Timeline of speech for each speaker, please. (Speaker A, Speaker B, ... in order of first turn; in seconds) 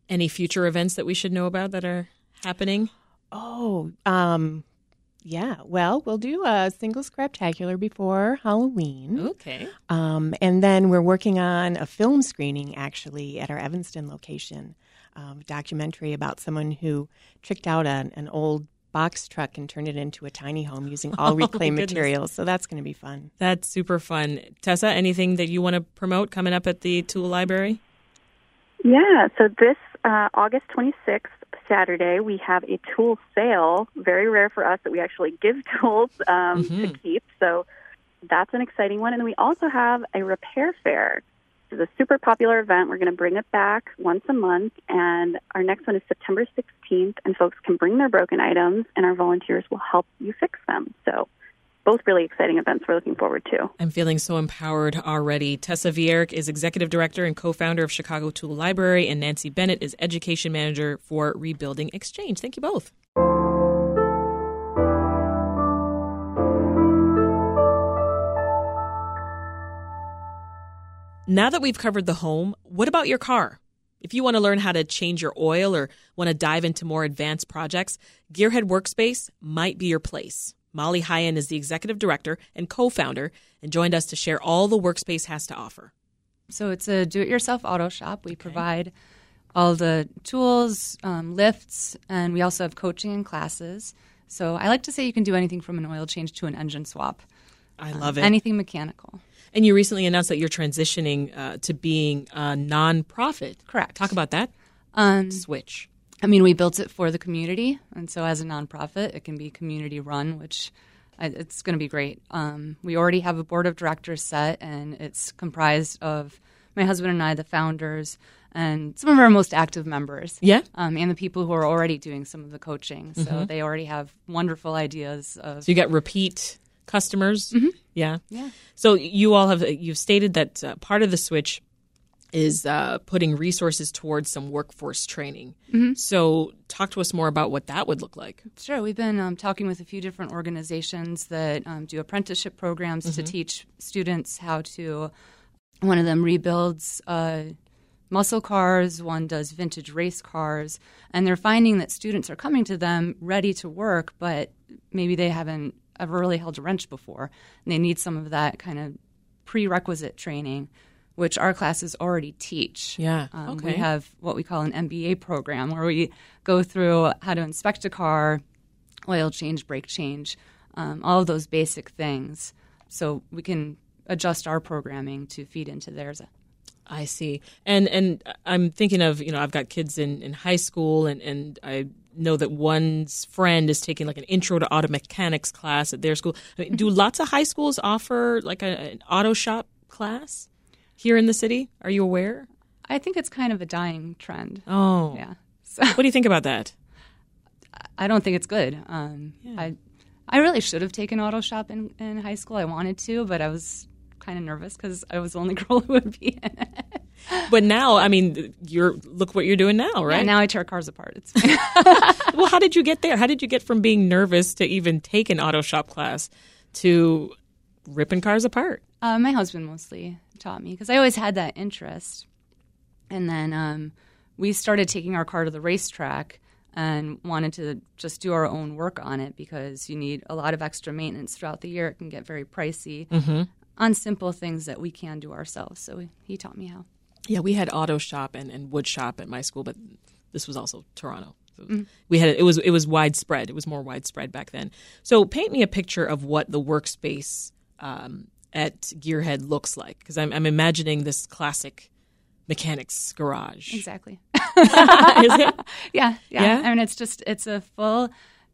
Speaker A: 0.1-2.9, 9.2-9.7, 21.2-22.1, 23.4-27.8, 36.5-37.0, 53.8-62.9, 71.3-85.9, 88.3-88.6, 97.8-98.3, 99.5-104.5, 105.3-105.9, 123.2-123.5, 125.6-131.6, 132.3-138.4, 163.0-163.8, 176.9-190.5, 191.0-192.5, 194.7-195.2, 195.9-196.7, 207.5-210.3, 211.8-217.3, 217.9-218.8, 233.1-233.5, 237.3-251.9, 252.5-253.8, 254.6-255.6, 256.3-256.7
Speaker B: 3.3-4.6, 5.2-9.3, 9.9-23.3
Speaker C: 28.8-37.6, 38.3-51.3, 51.9-53.7
Speaker D: 86.5-88.9, 89.5-97.2, 97.9-99.2, 103.7-104.1, 104.9-105.4, 106.2-125.7, 135.7-136.0, 138.6-145.1, 145.8-147.5, 148.1-168.4, 169.1-176.3, 192.8-196.0, 198.0-199.8, 200.3-207.5, 210.1-212.3, 219.0-222.2, 223.1-233.1, 233.8-236.8, 253.7-258.1